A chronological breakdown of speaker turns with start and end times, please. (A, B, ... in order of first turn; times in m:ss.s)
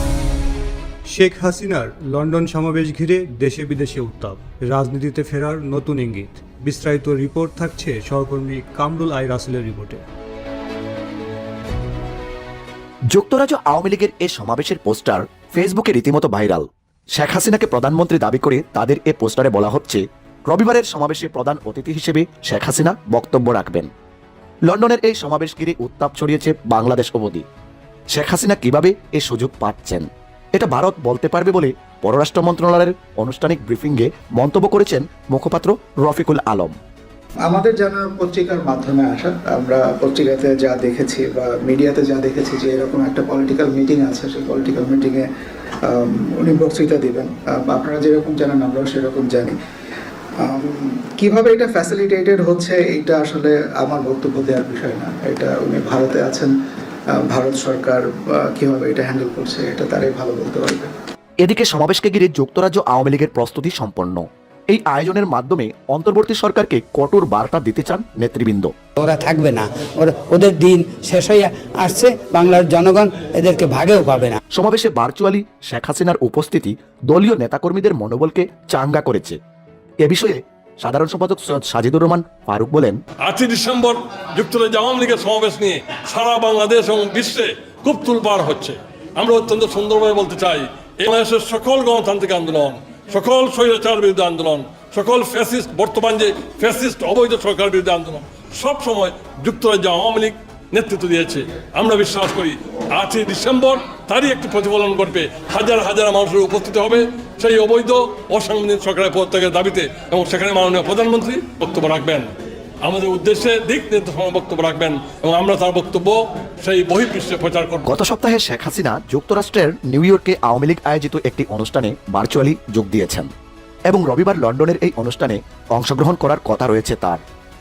0:01.1-0:10.0 A
0:13.1-0:23.9 B
0:24.7-0:27.4 B
0:28.1-0:36.8 B
0:37.4-0:45.3 C
0:45.9-0:49.6 C
0:50.4-0:56.5 C
0:57.2-1:00.9 C
1:01.4-1:08.7 B
1:09.0-1:14.4 D
1:14.5-1:19.4 B
1:20.0-1:23.0 B
1:23.2-1:52.3 E
1:52.8-1:57.9 E
1:57.9-2:03.3 B
2:03.9-2:07.2 B